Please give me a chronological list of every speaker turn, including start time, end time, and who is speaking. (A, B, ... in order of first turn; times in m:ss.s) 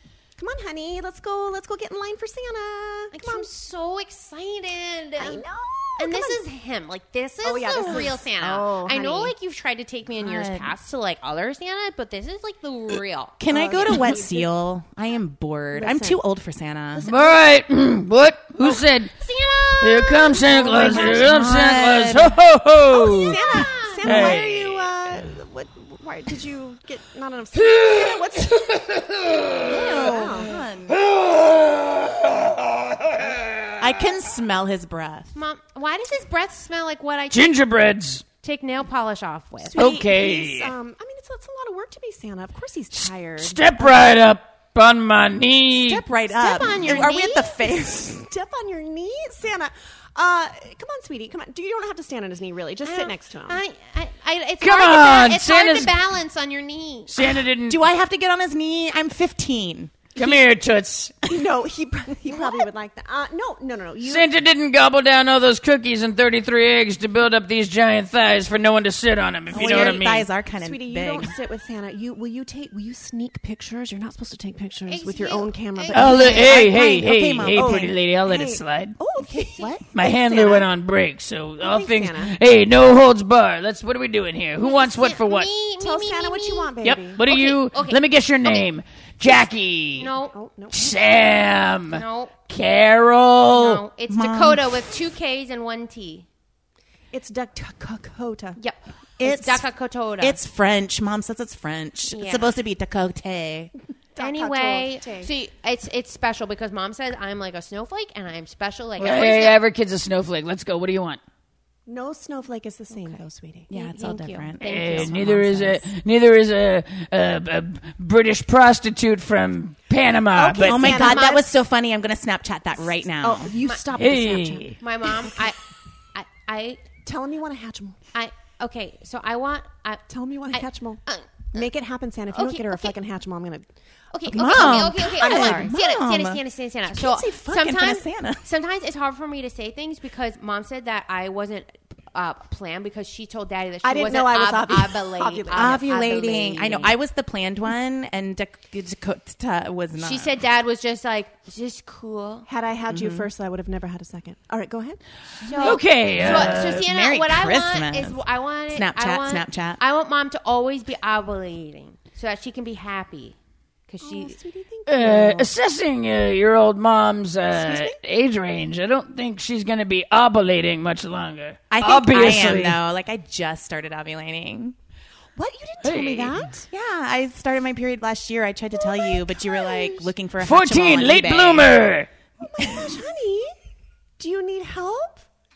0:00.4-0:03.5 A
0:03.1-0:05.4 B
0:05.2-0:06.4 A
0:06.0-0:13.4 B
0:07.4-0:09.3 A
0:10.2-0:10.7 C
0:13.4-0:17.1 C
0:13.5-0:14.5 A
0:15.7-0:16.2 A
0:17.0-0:17.4 A
0:17.0-0:19.1 D
0:19.2-0:21.0 B
0:19.8-0:24.9 D
0:20.2-0:21.5 A
0:20.7-0:22.4 C
0:22.9-0:28.7 A
0:23.5-0:24.3 B
0:28.5-0:29.8 D
0:29.6-0:31.0 C
0:29.6-0:30.6 A
0:30.9-0:33.8 D
0:33.8-0:35.3 C
0:35.4-0:37.6 B
0:37.3-0:38.2 D
0:38.4-0:39.8 B
0:39.6-0:44.2 A
0:39.8-0:40.7 D
0:42.9-0:46.0 D
0:45.8-0:48.3 C
0:46.3-0:47.6 B
0:48.0-0:53.6 A
0:52.8-0:57.1 B
0:54.6-0:55.9 D
0:57.1-0:57.8 D
0:57.6-1:00.1 C
1:00.1-1:01.1 D
1:01.3-1:04.3 A
1:04.0-1:10.3 D
1:09.5-1:11.3 C
1:09.5-1:16.9 A
1:14.9-1:16.5 B
1:15.9-1:19.0 D
1:16.1-1:17.9 C
1:17.5-1:20.7 A
1:19.6-1:19.8 C
1:19.9-1:25.5 D
1:21.6-1:22.3 A
1:24.6-1:28.6 B
1:25.8-1:27.2 A
1:26.8-1:30.1 D
1:30.0-1:30.4 B
1:30.3-1:31.0 A
1:30.7-1:33.8 D
1:31.9-1:32.3 B
1:33.6-1:36.3 B
1:34.1-1:35.0 C
1:37.1-1:38.6 A
1:38.6-1:40.4 B
1:39.2-1:39.7 C
1:40.2-1:43.7 C
1:42.1-1:42.5 B
1:44.2-1:45.3 A
1:44.2-1:49.6 B
1:49.0-1:51.2 D
1:51.9-1:53.7 A
1:52.9-1:55.1 B
1:53.7-1:55.9 C
1:54.6-2:01.2 D
2:00.3-2:01.5 A
2:00.6-2:03.5 C
2:03.2-2:04.7 A
2:04.0-2:04.8 D
2:04.8-2:05.6 B
2:06.1-2:06.8 B
2:07.0-2:08.0 A
2:08.1-2:11.7 B
2:10.1-2:11.0 A
2:11.5-2:13.7 A
2:12.3-2:13.0 B
2:14.1-2:27.0 B
2:14.3-2:15.7 A
2:14.3-2:18.4 C
2:23.8-2:25.8 A
2:25.5-2:30.3 C
2:30.0-2:32.5 B
2:32.5-2:35.8 A
2:32.9-2:33.3 C
2:35.4-2:38.2 C
2:35.4-2:43.4 B
2:35.6-2:36.9 D
2:38.7-2:39.8 C
2:43.9-2:44.4 B
2:44.0-2:45.5 A
2:44.9-2:52.8 D
2:47.6-2:48.0 A
2:51.7-2:54.8 C
2:55.4-2:56.7 A
2:55.8-2:56.5 D
2:56.7-3:01.8 C
2:58.7-3:00.1 A
3:00.4-3:02.1 D
3:02.4-3:03.5 A
3:04.2-3:05.2 A